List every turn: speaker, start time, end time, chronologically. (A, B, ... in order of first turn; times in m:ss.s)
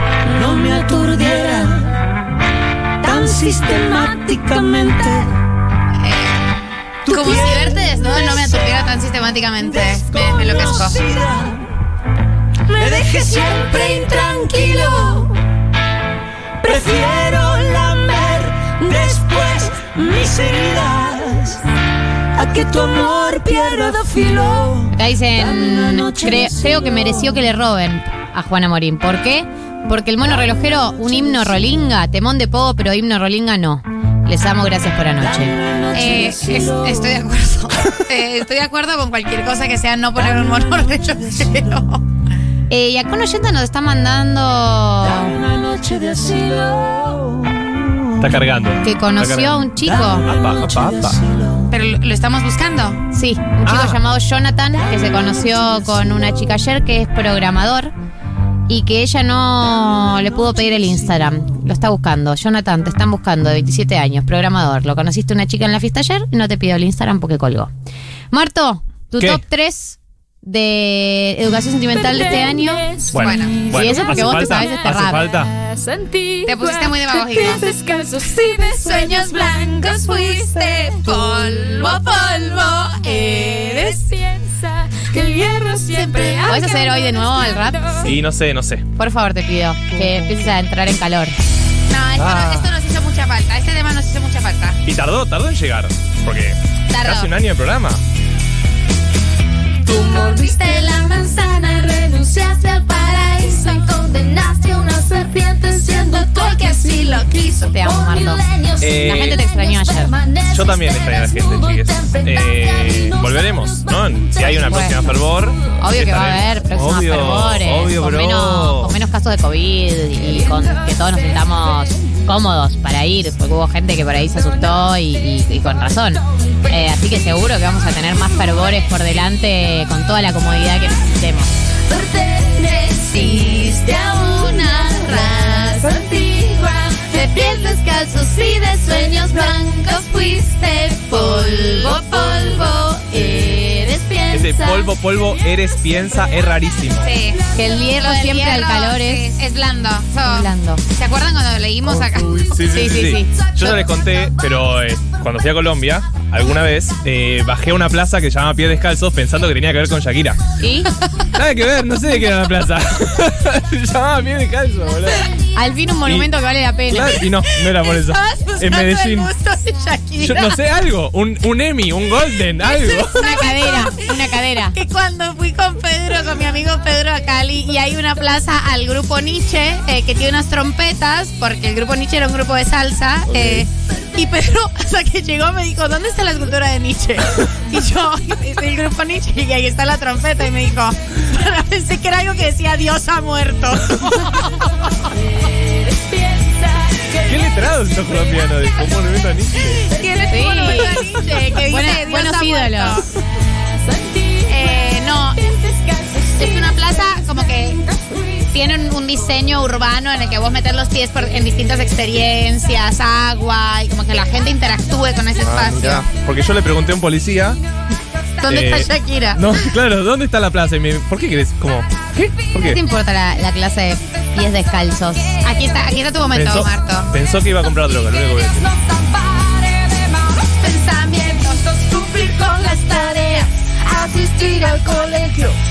0:00.2-0:02.0 A
0:03.0-0:05.3 A
0:06.0-0:06.4 B
0:07.1-0:08.7 A
0:07.1-0:11.0 B
0:09.6-0:11.7 A
0:12.7-0:15.4 A
0:16.6-0:21.6 A
0:22.4-0:27.4 A
0:24.9-0:35.6 C
0:35.2-0:37.2 A
0:35.9-0:42.0 B
0:40.4-0:41.6 A
0:42.7-0:45.4 C
0:45.0-0:48.3 A
0:48.2-0:49.7 D
0:48.8-0:50.3 C
0:49.8-0:51.7 A
0:50.2-0:51.2 D
0:51.7-0:53.0 B
0:53.1-0:57.9 C
0:53.6-0:54.0 D
0:55.0-0:55.9 A
0:58.7-1:07.7 C
1:08.3-1:12.9 C
1:12.1-1:13.9 E
1:13.1-1:15.5 D
1:13.2-1:13.6 B
1:13.7-1:15.3 C
1:15.4-1:28.1 E
1:16.5-1:17.6 B
1:18.8-1:24.0 B
1:26.5-1:28.0 C
1:28.0-1:28.8 D
1:29.0-1:31.4 C
1:31.9-1:34.8 B
1:32.2-1:32.7 D
1:34.8-1:38.0 D
1:36.9-1:37.3 B
1:39.9-1:48.8 E
1:47.7-1:48.4 C
1:48.8-1:49.4 D
1:49.0-1:50.1 C
1:49.6-1:52.2 E
1:50.5-1:59.0 D
1:54.7-1:55.0 C
1:55.8-2:11.5 C
2:11.9-2:18.9 E
2:19.2-2:19.7 C
2:21.1-2:21.8 C
2:22.0-2:22.6 E
2:23.0-2:24.2 C
2:24.3-2:27.1 D
2:27.0-2:27.4 B
2:27.5-2:29.4 C
2:28.0-2:32.5 B
2:30.2-2:30.8 C
2:32.4-2:40.4 D
2:32.6-2:33.8 C
2:40.6-2:40.9 C
2:41.4-2:45.4 D
2:45.6-2:47.2 C
2:46.9-2:49.3 D
2:47.5-2:50.6 B
2:50.2-2:53.4 D
2:52.7-2:54.1 B
2:53.2-2:54.8 C
2:54.7-3:14.7 B
3:03.3-3:03.7 D
3:15.8-3:17.4 E
3:17.3-3:19.9 D
3:19.9-3:23.1 B
3:20.2-3:20.7 E
3:20.3-3:21.1 C
3:21.7-3:23.0 C
3:23.8-3:27.3 E
3:24.5-3:25.4 B
3:26.4-3:27.8 B
3:28.5-3:36.1 B
3:35.4-3:37.6 D
3:38.4-3:39.4 B
3:38.5-3:42.8 D
3:42.6-3:45.4 C
3:45.4-3:47.1 B
3:46.3-3:48.7 D
3:48.6-3:50.6 E
3:50.6-3:51.7 B
3:51.7-3:53.4 E